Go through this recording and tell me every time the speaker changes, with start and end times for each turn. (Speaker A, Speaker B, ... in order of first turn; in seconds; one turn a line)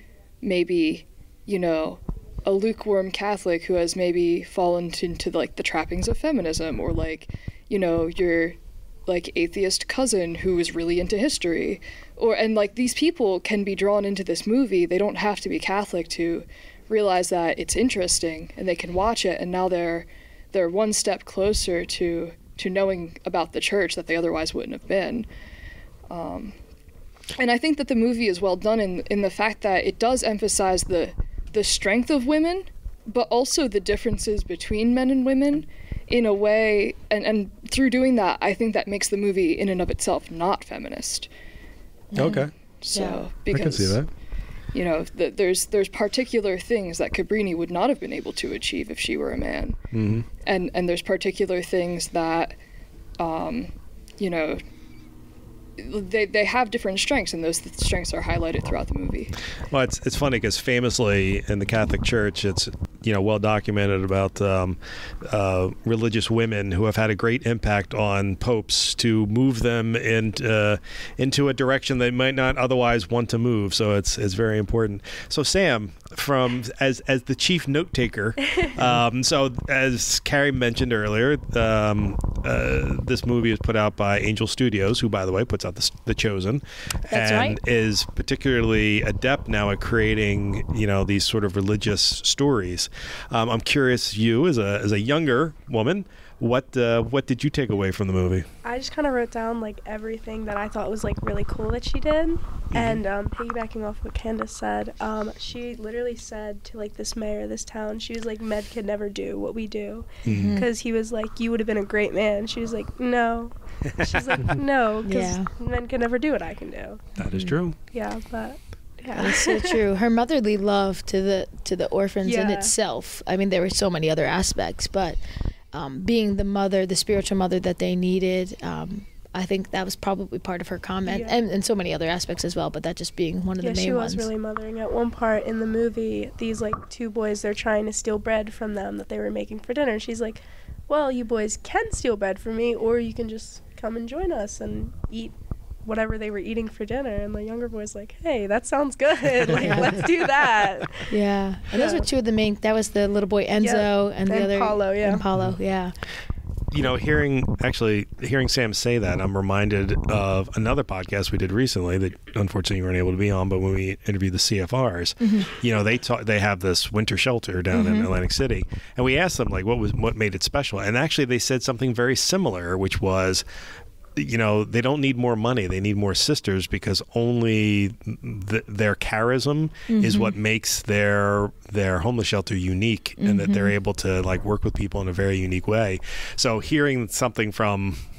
Speaker A: 0.4-25.3
Speaker A: 26.1-26.5
Speaker A: 27.4-41.3
Speaker B: 42.1-43.2
Speaker C: 42.2-42.5
Speaker A: 42.8-44.0
Speaker C: 43.5-44.1
Speaker A: 44.7-49.8
Speaker C: 49.9-50.3
Speaker A: 50.5-52.6
Speaker A: 53.2-54.6
Speaker A: 55.8-59.4
Speaker C: 59.7-98.5
Speaker B: 87.1-87.6
Speaker D: 98.6-117.1
Speaker C: 102.7-103.0
Speaker C: 110.3-110.5
Speaker B: 110.3-110.7
Speaker C: 114.0-114.5
Speaker B: 115.0-115.5
Speaker C: 117.2-117.8
Speaker B: 117.2-117.5
Speaker D: 117.9-119.8
Speaker B: 119.2-125.2
Speaker D: 122.2-122.7
Speaker B: 125.7-134.3
Speaker D: 131.1-131.3
Speaker D: 133.6-145.3
Speaker D: 145.8-151.1
Speaker B: 149.6-150.0
Speaker B: 151.1-155.9
Speaker D: 151.7-152.1
Speaker D: 153.6-155.2
Speaker C: 156.7-173.4
Speaker B: 165.2-165.5
Speaker B: 167.7-168.1
Speaker C: 174.2-188.0
Speaker B: 179.9-180.3
Speaker B: 183.2-183.7